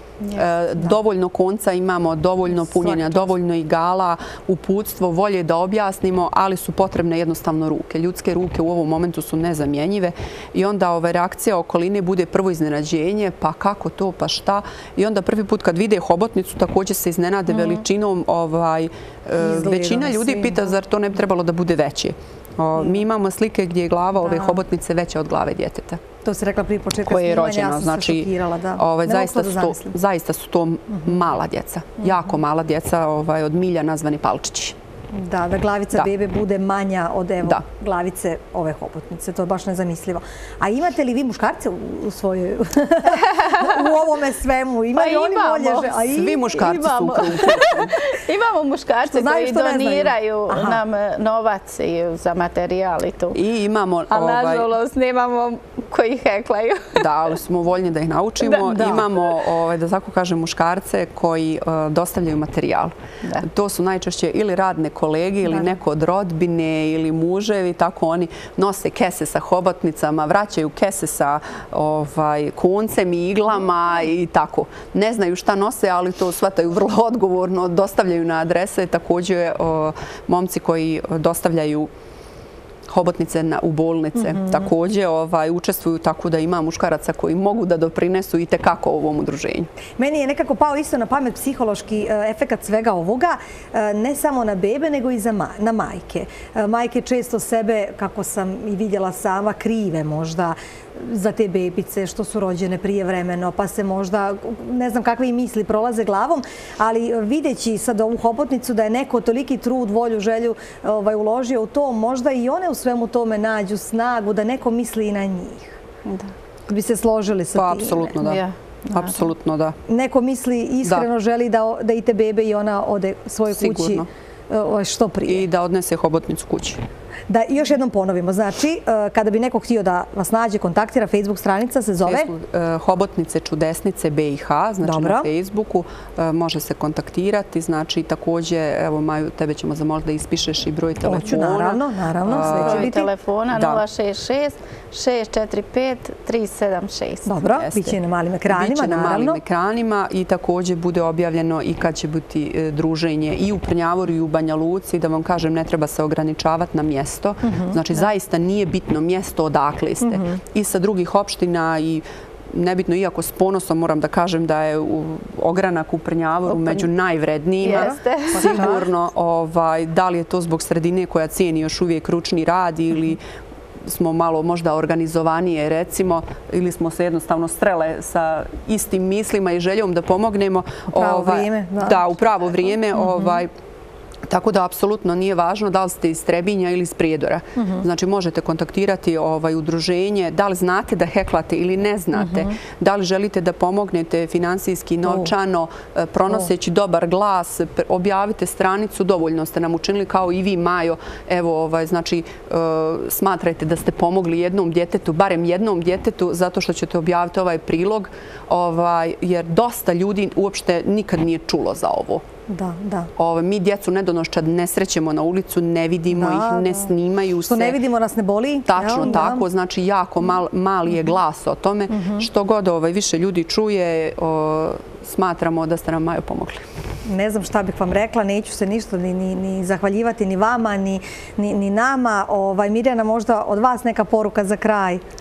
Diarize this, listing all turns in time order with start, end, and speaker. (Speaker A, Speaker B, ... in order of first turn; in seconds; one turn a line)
Speaker A: 0.3-26.0
Speaker B: 2.7-3.3
Speaker B: 19.4-20.7
Speaker B: 24.2-24.6
Speaker B: 26.2-29.9
Speaker A: 27.1-34.8
Speaker B: 35.1-46.7
Speaker C: 43.3-43.7
Speaker C: 44.9-53.4
Speaker A: 45.9-48.0
Speaker B: 49.1-50.8
Speaker A: 53.4-54.7
Speaker C: 54.1-57.1
Speaker A: 57.0-81.9
Speaker B: 58.6-59.1
Speaker B: 65.5-65.7
Speaker A: 82.9-89.7
Speaker B: 84.3-84.7
Speaker B: 90.0-115.8
Speaker C: 116.1-116.3
Speaker B: 116.7-118.2
Speaker A: 117.5-119.8
Speaker C: 118.2-119.1
Speaker B: 119.9-125.5
Speaker A: 123.5-124.1
Speaker A: 125.3-126.8
Speaker B: 127.3-132.3
Speaker A: 132.1-142.9
Speaker B: 134.8-135.3
Speaker B: 141.0-143.1
Speaker C: 142.4-147.4
Speaker A: 143.5-143.8
Speaker B: 147.3-149.4
Speaker A: 147.5-148.0
Speaker A: 148.5-173.2
Speaker B: 157.4-157.8
Speaker B: 160.1-160.4
Speaker C: 167.6-168.8
Speaker B: 167.7-168.8
Speaker A: 173.8-183.5
Speaker B: 180.9-182.1
Speaker B: 183.0-183.4
Speaker A: 184.3-212.2
Speaker B: 187.6-187.8
Speaker B: 192.2-192.5
Speaker B: 212.5-213.1
Speaker A: 213.2-217.8
Speaker B: 216.1-216.9
Speaker B: 217.5-219.4
Speaker A: 218.7-226.6
Speaker B: 221.9-222.3
Speaker B: 227.1-235.0